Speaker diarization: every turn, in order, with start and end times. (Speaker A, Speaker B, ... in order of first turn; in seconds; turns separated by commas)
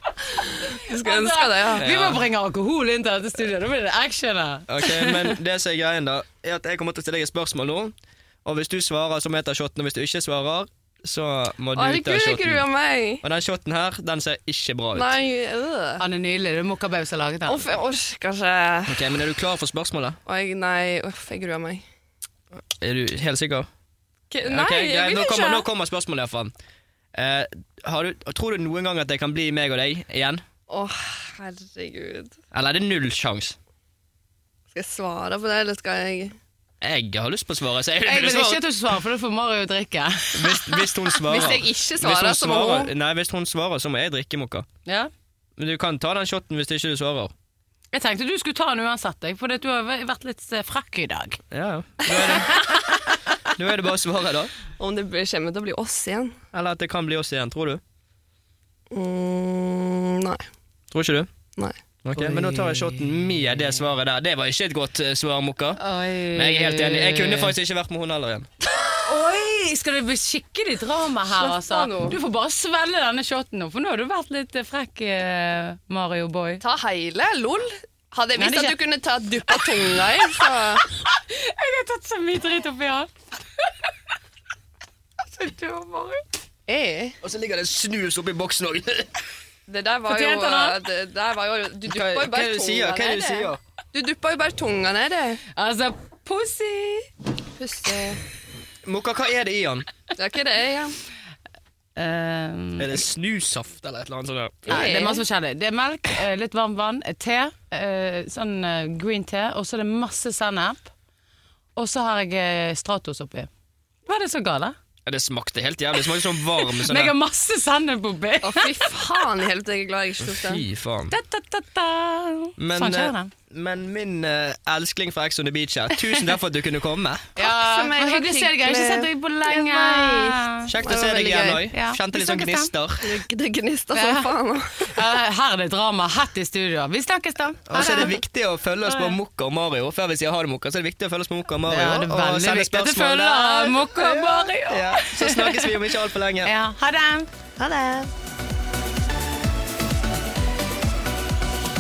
Speaker A: 0.3-5.3, Speaker B: 0.7-1.9, Speaker C: 1.8-2.2, Speaker C: 4.7-12.7, Speaker B: 11.7-13.2, Speaker C: 13.2-15.1, Speaker B: 14.9-16.0, Speaker A: 16.0-17.7, Speaker B: 17.4-19.0, Speaker C: 18.9-20.2, Speaker B: 20.3-21.8, Speaker C: 22.8-23.7, Speaker B: 24.3-25.6, Speaker C: 24.4-26.5, Speaker C: 27.1-30.4, Speaker B: 30.7-32.4, Speaker C: 32.5-33.6, Speaker B: 34.7-36.4, Speaker C: 36.8-38.6, Speaker A: 38.0-41.1, Speaker C: 40.3-44.6, Speaker B: 41.2-42.9, Speaker C: 45.6-47.3, Speaker A: 47.9-51.4, Speaker C: 51.5-52.6, Speaker B: 52.1-52.4, Speaker A: 52.1-53.2, Speaker C: 53.5-54.5, Speaker B: 54.8-56.4, Speaker C: 56.5-57.8, Speaker B: 58.9-60.4, Speaker C: 60.9-61.3, Speaker C: 62.0-65.8, Speaker A: 62.1-63.1, Speaker A: 65.8-67.5, Speaker C: 66.3-68.5, Speaker A: 69.0-76.6, Speaker B: 71.3-72.2, Speaker B: 76.6-80.8, Speaker A: 78.4-78.8, Speaker A: 81.2-83.1, Speaker A: 85.3-86.2, Speaker B: 86.7-87.2, Speaker C: 87.2-89.2, Speaker B: 89.7-95.4, Speaker A: 90.1-90.8, Speaker C: 91.9-93.6, Speaker A: 95.5-97.1, Speaker B: 97.6-98.2, Speaker C: 98.8-99.9, Speaker B: 100.2-101.0, Speaker A: 102.0-103.0, Speaker C: 102.8-104.8, Speaker B: 104.7-105.2, Speaker A: 104.7-110.9, Speaker A: 111.8-113.5, Speaker A: 114.0-114.8, Speaker C: 115.1-117.1, Speaker A: 116.6-118.7, Speaker B: 118.4-120.6, Speaker C: 120.2-121.1, Speaker A: 121.1-123.3, Speaker C: 122.6-127.3, Speaker A: 127.4-132.7, Speaker B: 127.4-131.4, Speaker C: 130.7-133.2, Speaker B: 133.0-134.9, Speaker A: 133.9-138.2, Speaker C: 137.7-146.5, Speaker B: 137.8-138.1, Speaker A: 138.9-139.2, Speaker A: 141.7-145.7, Speaker A: 146.4-147.3, Speaker B: 147.6-148.1